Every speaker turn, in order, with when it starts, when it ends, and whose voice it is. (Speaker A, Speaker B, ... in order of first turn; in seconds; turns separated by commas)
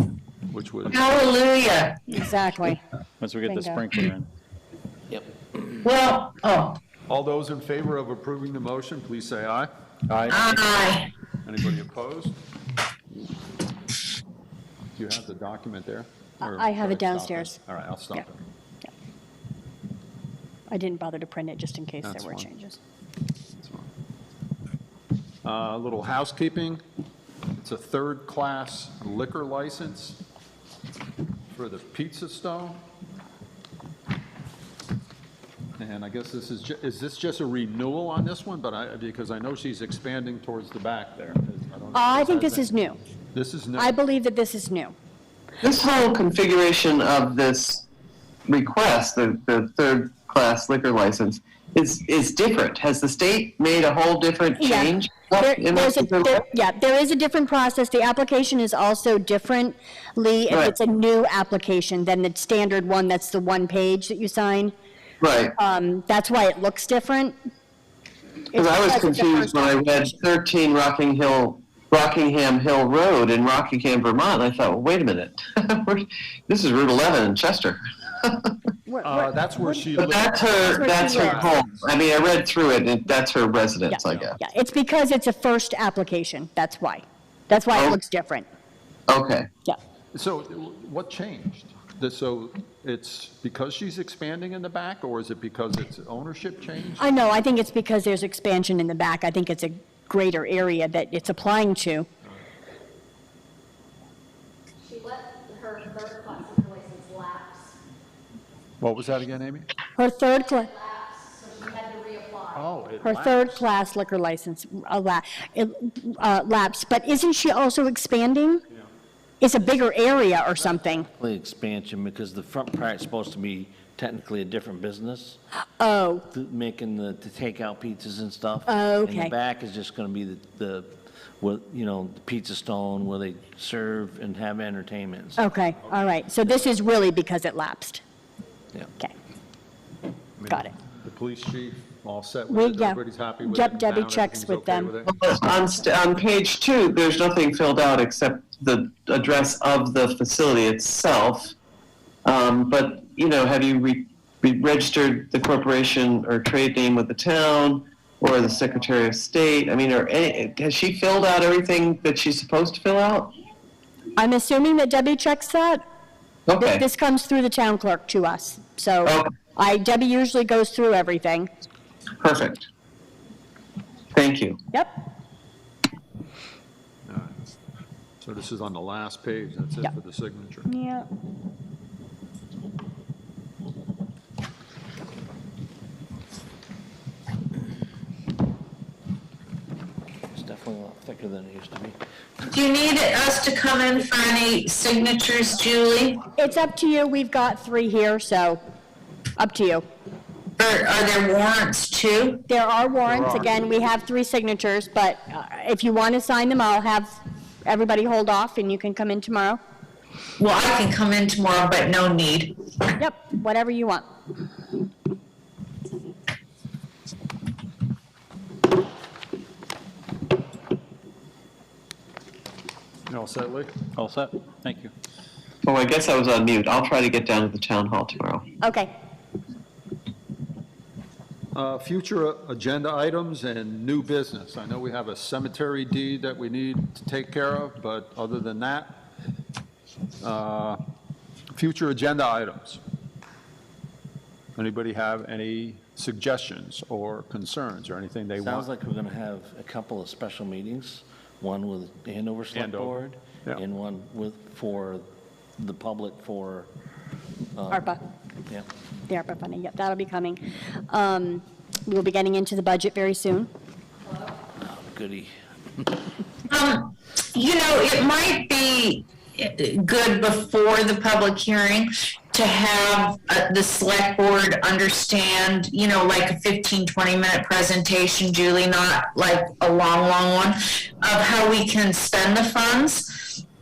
Speaker A: 0.5-1.1, Speaker B: 0.9-2.0, Speaker C: 2.1-2.8, Speaker D: 3.2-4.3, Speaker C: 3.5-3.8, Speaker B: 5.8-6.8, Speaker A: 7.1-9.7, Speaker D: 10.1-10.4, Speaker B: 10.3-11.1, Speaker A: 11.4-12.4, Speaker A: 14.9-18.4, Speaker C: 16.4-17.6, Speaker C: 20.7-22.8, Speaker A: 22.0-22.5, Speaker A: 23.5-23.9, Speaker A: 25.4-26.8, Speaker A: 27.6-30.2, Speaker A: 31.5-32.8, Speaker A: 35.8-42.7, Speaker C: 41.9-43.0, Speaker A: 43.3-44.0, Speaker C: 43.8-44.9, Speaker E: 45.6-47.8, Speaker E: 48.5-56.4, Speaker C: 54.6-64.7, Speaker E: 60.5-60.7, Speaker E: 65.2-65.5, Speaker C: 65.6-67.3, Speaker C: 68.5-70.2, Speaker E: 68.5-78.5, Speaker C: 78.9-79.8, Speaker A: 79.0-81.7, Speaker E: 80.0-84.4, Speaker C: 80.7-81.4, Speaker C: 83.9-88.5, Speaker A: 84.1-84.3, Speaker E: 87.7-88.0, Speaker E: 89.1-89.5, Speaker A: 90.1-97.2, Speaker C: 97.0-102.1, Speaker F: 104.8-107.7, Speaker A: 108.8-109.7, Speaker C: 110.0-110.7, Speaker F: 110.8-112.7, Speaker A: 112.5-113.7, Speaker C: 113.0-118.6, Speaker C: 119.4-121.0, Speaker G: 120.9-125.4, Speaker C: 125.8-126.2, Speaker G: 126.3-135.4, Speaker C: 128.7-129.3, Speaker C: 135.4-138.0, Speaker A: 140.4-145.1, Speaker C: 142.5-144.9, Speaker E: 145.1-151.5, Speaker E: 152.2-163.3, Speaker C: 164.2-165.8, Speaker E: 166.5-166.8, Speaker C: 166.6-171.5, Speaker E: 169.0-169.3, Speaker E: 172.2-172.7, Speaker E: 174.1-174.6, Speaker A: 177.1-177.4, Speaker A: 178.2-180.7, Speaker C: 180.7-181.1, Speaker G: 190.3-192.0, Speaker B: 192.5-196.2, Speaker C: 196.3-198.6, Speaker C: 199.4-199.8, Speaker B: 200.6-202.4, Speaker C: 202.4-209.6, Speaker A: 203.1-203.5, Speaker B: 210.4-212.6, Speaker C: 213.0-214.0, Speaker A: 223.1-223.8, Speaker D: 223.9-224.9, Speaker E: 225.6-228.4, Speaker C: 228.6-228.9, Speaker A: 231.5-239.0, Speaker A: 240.2-240.8, Speaker A: 241.5-242.8, Speaker A: 244.6-248.7, Speaker G: 248.3-256.7, Speaker A: 252.5-253.6, Speaker G: 257.5-258.7, Speaker C: 257.7-258.0, Speaker C: 259.1-263.5, Speaker G: 264.6-266.0, Speaker B: 266.5-283.4